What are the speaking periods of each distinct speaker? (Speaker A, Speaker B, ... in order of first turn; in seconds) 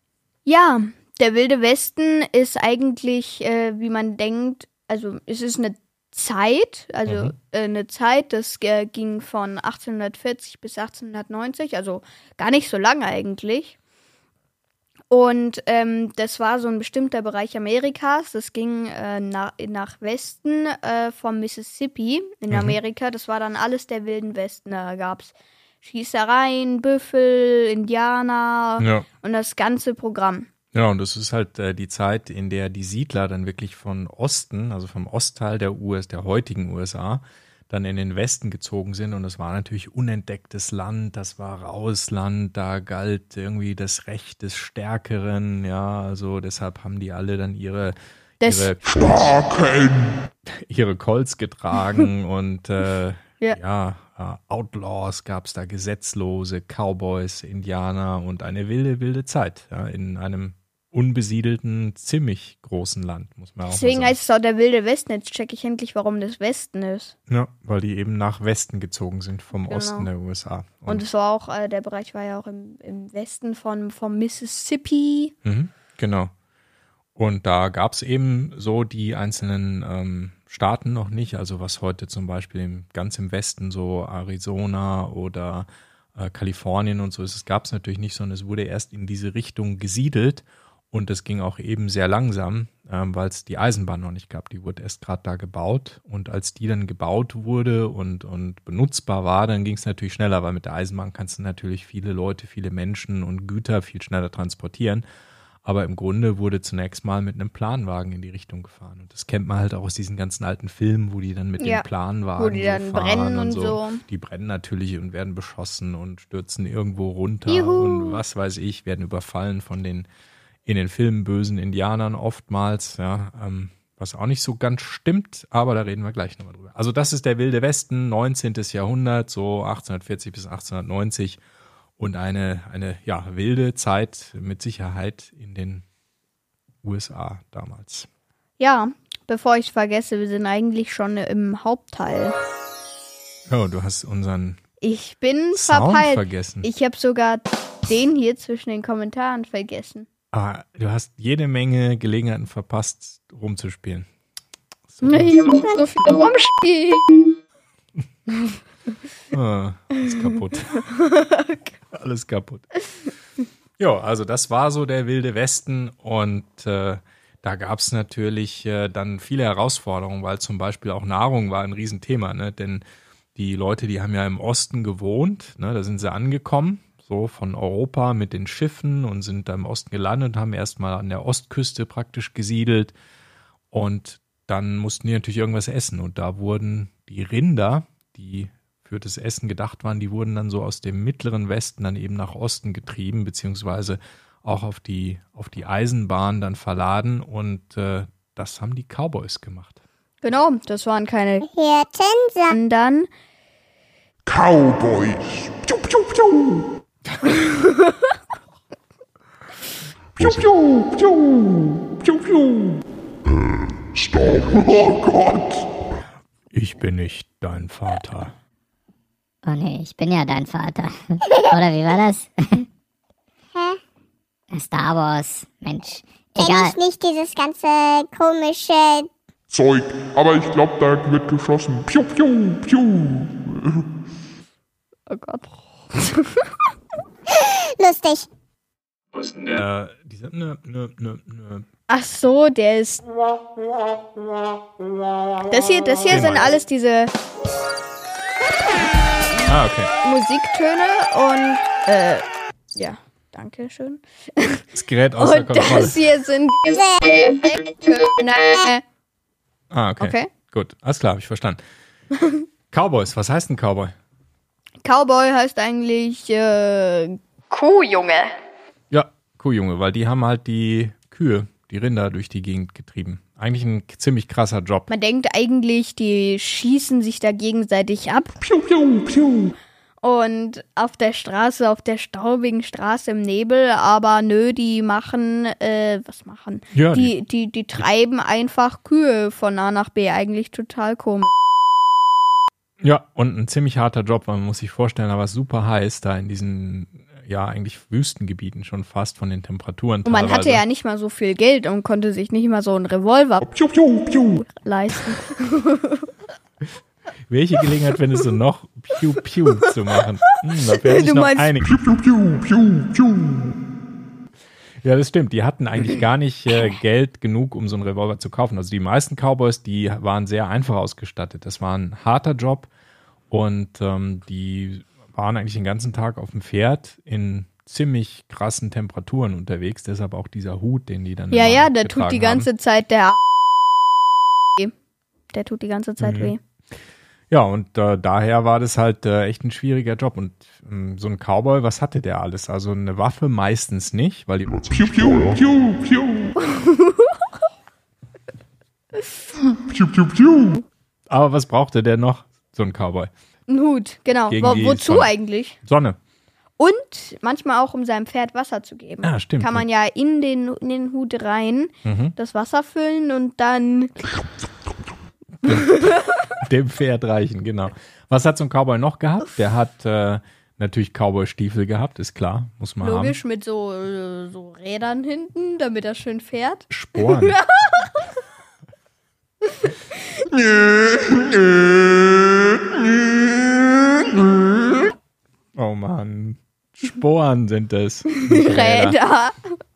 Speaker A: 0.5-13.8, 15.1-30.5, 48.4-48.7, 63.6-67.1, 69.5-70.1, 70.8-75.3, 111.6-111.8, 112.4-114.0, 117.5-118.2, 138.6-142.3, 144.8-150.1, 155.0-157.3, 160.7-161.7, 200.2-201.4, 202.5-203.1, 207.4-208.1, 235.1-236.5, 241.9-243.0, 245.5-247.1, 250.0-254.7, 255.2-258.8, 260.0-260.3, 262.2-262.4, 264.8-268.3, 274.9-278.4, 280.0-291.3, 300.0-303.5, 304.5-306.1, 310.6-311.5, 331.3-333.2, 335.3-336.4, 346.4-347.3, 353.5-355.6, 356.6-363.9, 365.4-366.2, 372.8-378.0, 379.5-379.7, 388.1-389.6
Speaker B: 7.0-7.3, 22.5-22.8, 28.8-29.1, 30.7-48.8, 50.5-64.1, 67.3-71.0, 75.4-76.3, 77.2-105.0, 105.6-120.1, 120.7-131.4, 132.0-135.8, 136.8-138.1, 143.5-144.6, 145.5-146.7, 150.3-154.1, 154.9-155.4, 159.3-160.8, 161.9-162.7, 163.8-172.8, 173.3-182.9, 183.7-199.8, 216.5-218.3, 239.5-241.7, 246.1-246.5, 249.4-249.9, 254.7-256.0, 259.7-261.6, 262.7-263.9, 268.9-274.9, 286.7-287.1, 292.8-300.6, 307.3-311.8, 314.8-322.7, 323.3-332.5, 336.0-336.3, 337.3-345.4, 351.1-353.1, 354.3-356.0, 359.0-359.6, 361.8-362.1, 365.4-365.8, 366.4-373.1, 376.7-377.4, 385.5-389.0
Speaker C: 48.8-50.3, 204.2-206.7, 210.2-212.8, 213.9-215.7, 229.5-233.8, 278.4-279.6, 303.4-304.5, 311.6-313.6, 344.6-346.4, 349.7-350.6, 380.3-384.8
Speaker D: 201.4-202.6, 223.5-223.8, 226.4-229.1, 237.3-238.3
Speaker E: 219.4-222.7, 224.5-226.7